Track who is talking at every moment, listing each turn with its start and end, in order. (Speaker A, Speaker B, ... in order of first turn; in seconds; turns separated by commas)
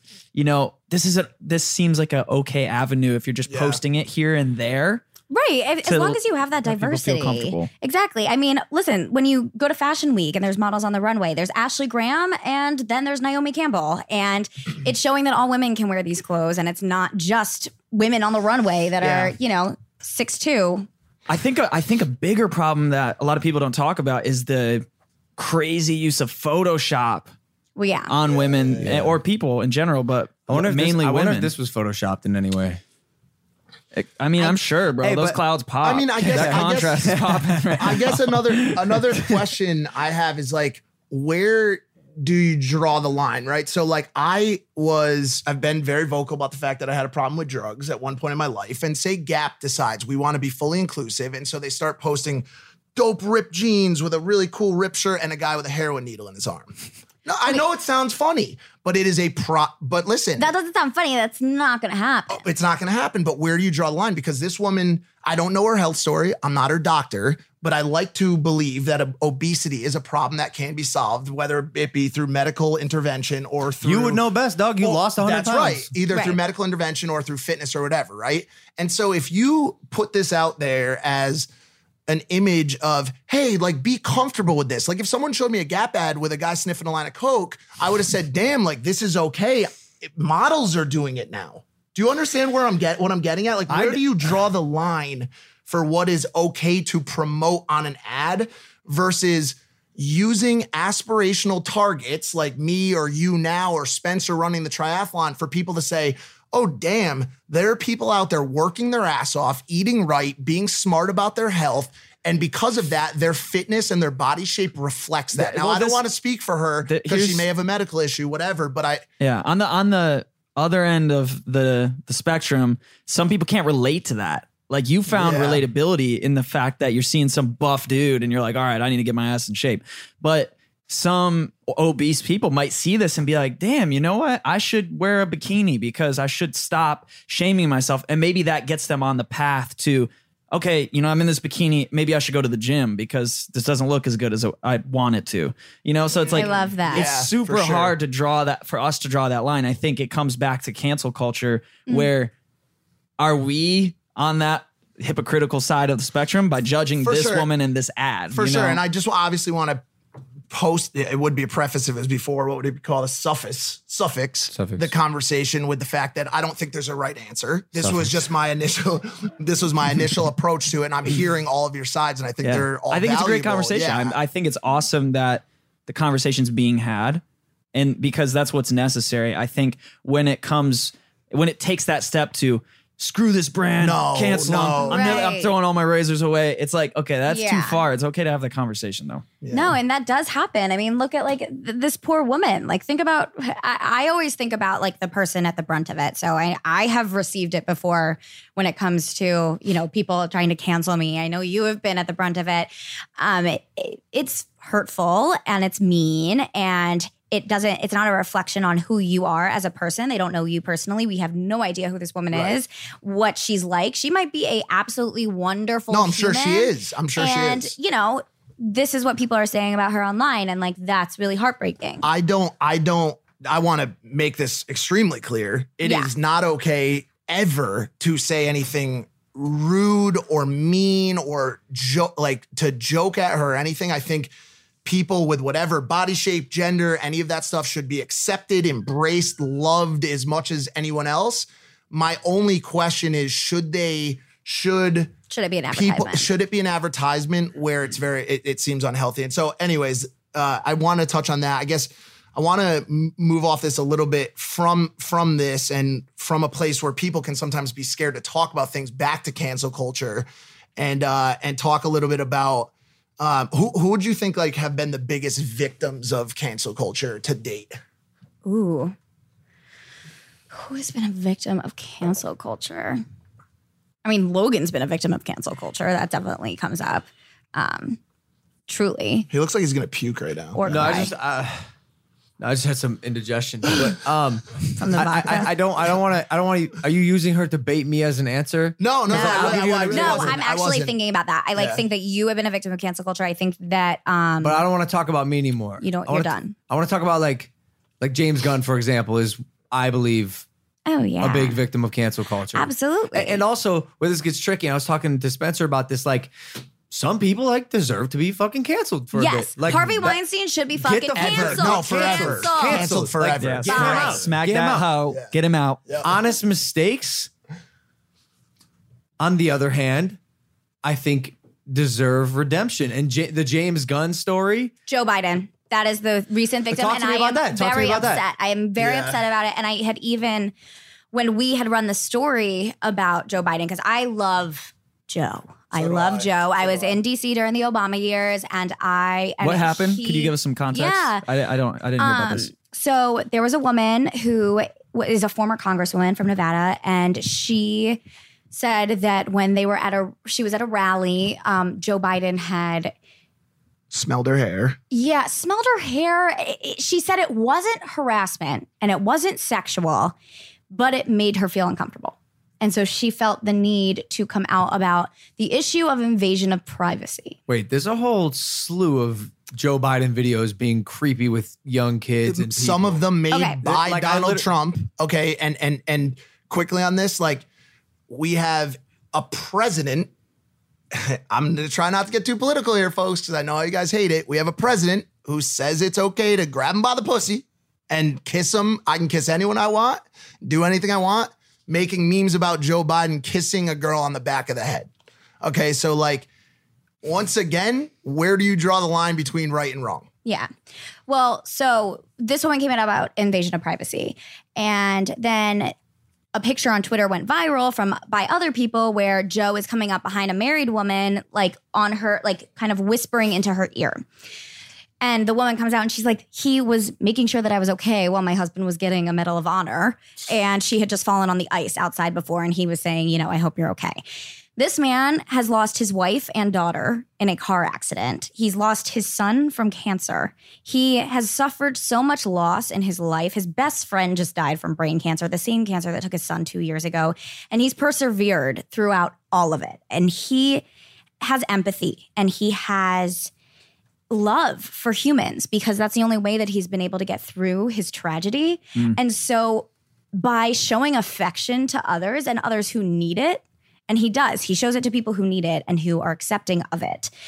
Speaker A: 0.3-5.0, Speaker B: 3.5-3.8, Speaker C: 5.3-20.9, Speaker A: 5.8-7.7, Speaker B: 19.0-19.3, Speaker A: 21.3-24.9, Speaker A: 25.4-27.3, Speaker C: 27.8-28.1, Speaker A: 28.1-31.5, Speaker B: 28.3-29.0, Speaker D: 28.8-29.2, Speaker D: 30.5-32.8, Speaker A: 33.9-38.1, Speaker D: 35.0-35.4, Speaker B: 35.8-37.2, Speaker D: 36.3-38.8, Speaker B: 37.8-56.7, Speaker B: 57.2-60.5, Speaker C: 60.4-62.4, Speaker B: 62.3-74.2, Speaker D: 73.8-75.9, Speaker B: 74.8-81.5, Speaker C: 76.1-76.4, Speaker B: 82.1-119.0, Speaker D: 93.7-94.0, Speaker A: 115.3-116.0, Speaker A: 116.9-117.5, Speaker A: 119.2-152.3, Speaker B: 125.1-125.6, Speaker B: 146.1-147.9, Speaker C: 146.3-147.1, Speaker A: 153.2-158.8, Speaker B: 157.0-157.5, Speaker B: 158.3-159.8, Speaker B: 160.5-174.2, Speaker D: 164.5-164.9, Speaker D: 167.8-168.1, Speaker A: 172.4-177.2, Speaker A: 177.7-189.3, Speaker B: 183.8-185.3, Speaker C: 184.9-185.5, Speaker C: 187.3-187.8, Speaker B: 189.4-189.8, Speaker C: 189.5-222.0, Speaker B: 215.9-217.7, Speaker B: 222.0-234.3, Speaker C: 225.8-226.1, Speaker B: 234.8-245.1, Speaker C: 245.3-246.3, Speaker B: 245.7-267.8, Speaker C: 268.4-268.9, Speaker C: 270.5-273.0, Speaker C: 274.1-278.0, Speaker C: 278.7-279.3, Speaker B: 279.3-280.9, Speaker C: 280.5-281.1, Speaker D: 280.7-281.6, Speaker D: 282.4-290.4, Speaker C: 284.8-285.5, Speaker B: 288.8-290.9, Speaker C: 289.1-294.6, Speaker B: 291.6-291.8, Speaker D: 294.4-297.5, Speaker C: 295.8-296.6, Speaker D: 298.0-300.4, Speaker C: 300.9-301.6, Speaker D: 301.2-306.3, Speaker C: 302.6-303.4, Speaker D: 306.9-310.2, Speaker C: 309.1-312.9, Speaker D: 310.8-314.9, Speaker B: 311.2-314.3, Speaker A: 313.4-315.8, Speaker C: 313.7-314.2, Speaker B: 315.9-316.1, Speaker D: 316.0-317.3, Speaker D: 319.2-320.2, Speaker D: 320.8-324.7, Speaker C: 324.9-330.5, Speaker D: 326.7-328.2, Speaker B: 328.8-329.2, Speaker C: 331.1-341.2, Speaker B: 335.7-337.0, Speaker A: 339.4-342.5, Speaker C: 342.0-348.0, Speaker C: 348.5-352.9, Speaker B: 353.9-354.8, Speaker C: 354.9-360.1, Speaker C: 360.7-367.4, Speaker D: 367.5-373.0, Speaker B: 372.2-377.4, Speaker C: 373.3-373.6, Speaker D: 373.6-374.4, Speaker B: 378.1-380.1, Speaker B: 380.9-394.9, Speaker B: 395.4-396.3, Speaker B: 397.0-400.1, Speaker C: 400.2-400.5, Speaker C: 401.1-405.7, Speaker C: 406.3-414.0, Speaker C: 415.0-424.0, Speaker C: 424.6-440.6, Speaker C: 441.2-443.3, Speaker C: 444.1-457.1